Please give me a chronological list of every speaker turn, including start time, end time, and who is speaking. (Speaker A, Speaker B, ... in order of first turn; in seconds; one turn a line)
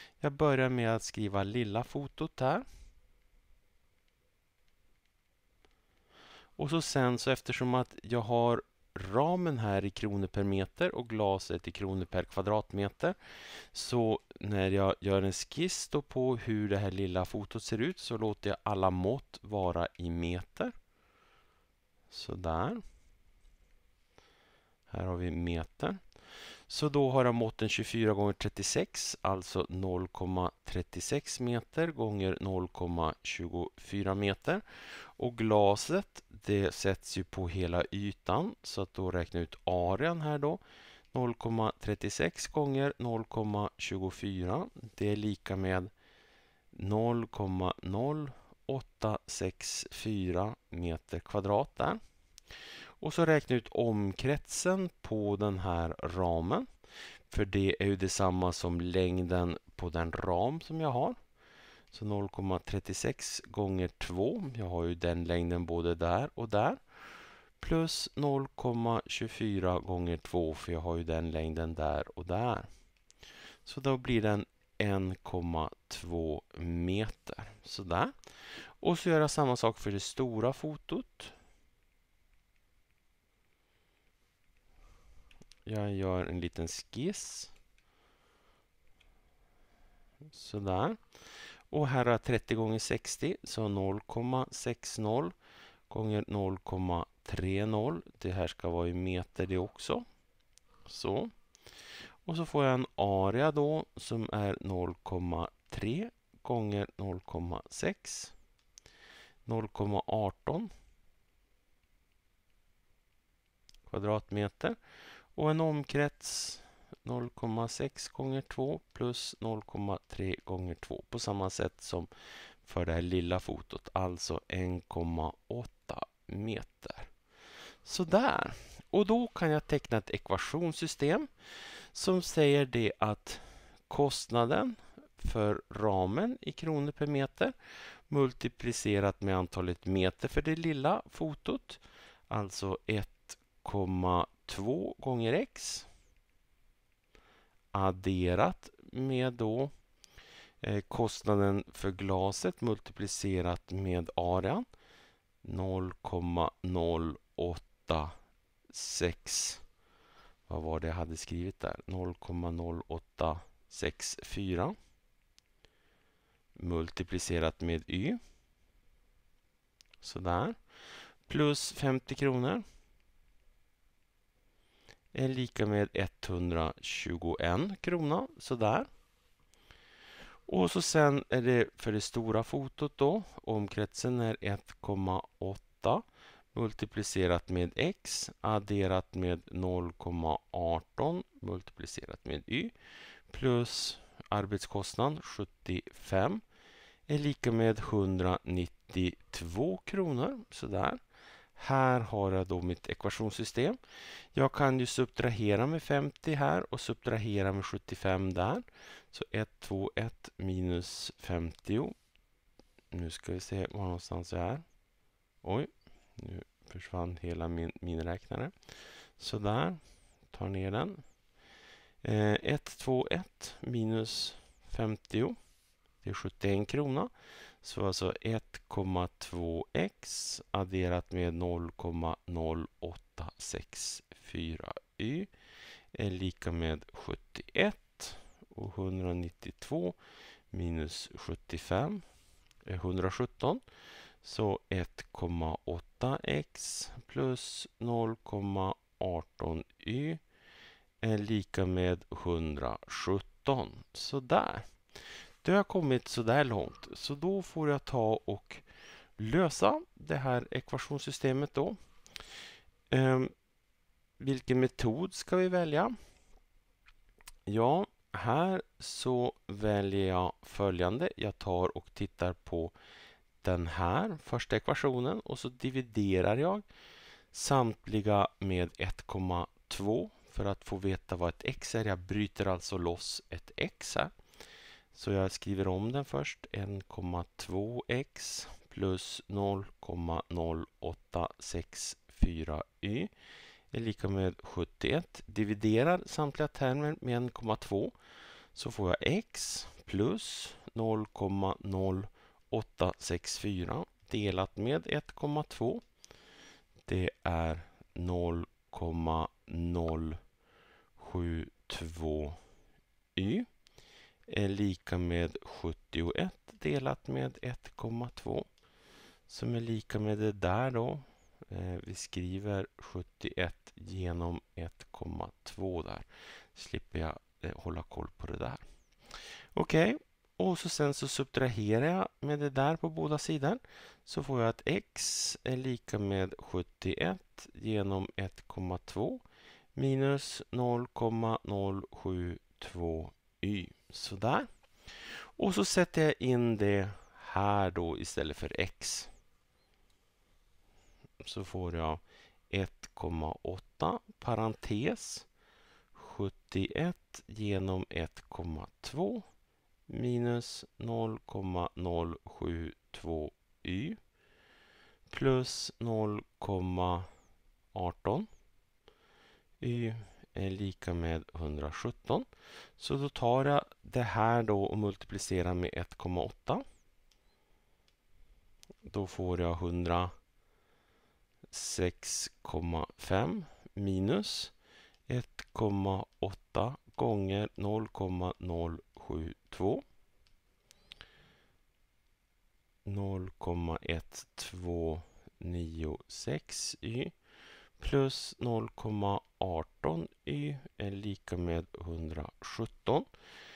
Speaker A: 0.2-2.6
Speaker A: 6.6-20.7
Speaker A: 22.1-22.8
Speaker A: 24.9-26.0
Speaker A: 26.7-40.6
Speaker A: 41.1-45.9
Speaker A: 46.7-52.0
Speaker A: 53.0-56.7
Speaker A: 57.3-61.2
Speaker A: 61.9-72.7
Speaker A: 73.6-81.3
Speaker A: 85.6-87.5
Speaker A: 90.3-91.0
Speaker A: 91.7-95.3
Speaker A: 95.9-100.0
Speaker A: 100.8-101.3
Speaker A: 102.2-108.3
Speaker A: 109.5-110.7
Speaker A: 113.9-114.8
Speaker A: 115.3-122.1
Speaker A: 122.6-127.1
Speaker A: 127.8-137.5
Speaker A: 138.1-145.9
Speaker A: 147.7-149.7
Speaker A: 150.6-154.7
Speaker A: 155.4-158.1
Speaker A: 158.7-159.6
Speaker A: 160.5-164.7
Speaker A: 166.6-168.2
Speaker A: 170.0-170.6
Speaker A: 171.2-172.6
Speaker A: 175.1-178.9
Speaker A: 180.5-192.7
Speaker A: 193.3-196.4
Speaker A: 197.1-201.0
Speaker A: 201.5-203.8
Speaker A: 204.3-211.9
Speaker A: 212.9-214.6
Speaker A: 215.4-221.0
Speaker A: 222.0-225.4
Speaker A: 226.0-227.1
Speaker A: 227.6-235.3
Speaker A: 235.9-240.0
Speaker A: 240.5-242.0
Speaker A: 242.7-243.6
Speaker A: 244.2-250.2
Speaker A: 251.0-254.7
Speaker A: 255.4-258.6
Speaker A: 259.2-261.8
Speaker A: 262.9-263.3
Speaker A: 264.2-265.9
Speaker A: 267.4-272.7
Speaker A: 273.4-276.6
Speaker A: 277.3-284.1
Speaker A: 284.9-293.1
Speaker A: 293.7-297.9
Speaker A: 298.5-305.8
Speaker A: 306.9-310.2
Speaker A: 311.0-312.4
Speaker A: 313.1-313.5
Speaker A: 314.3-318.4
Speaker A: 319.3-339.2
Speaker A: 339.7-349.1
Speaker A: 351.2-355.3
Speaker A: 355.9-359.2
Speaker A: 359.9-364.0
Speaker A: 365.1-367.1
Speaker A: 367.7-368.3
Speaker A: 369.6-376.6
Speaker A: 378.8-380.1
Speaker A: 381.5-384.5
Speaker A: 385.1-389.8
Speaker A: 392.8-397.1
Speaker A: 397.8-403.1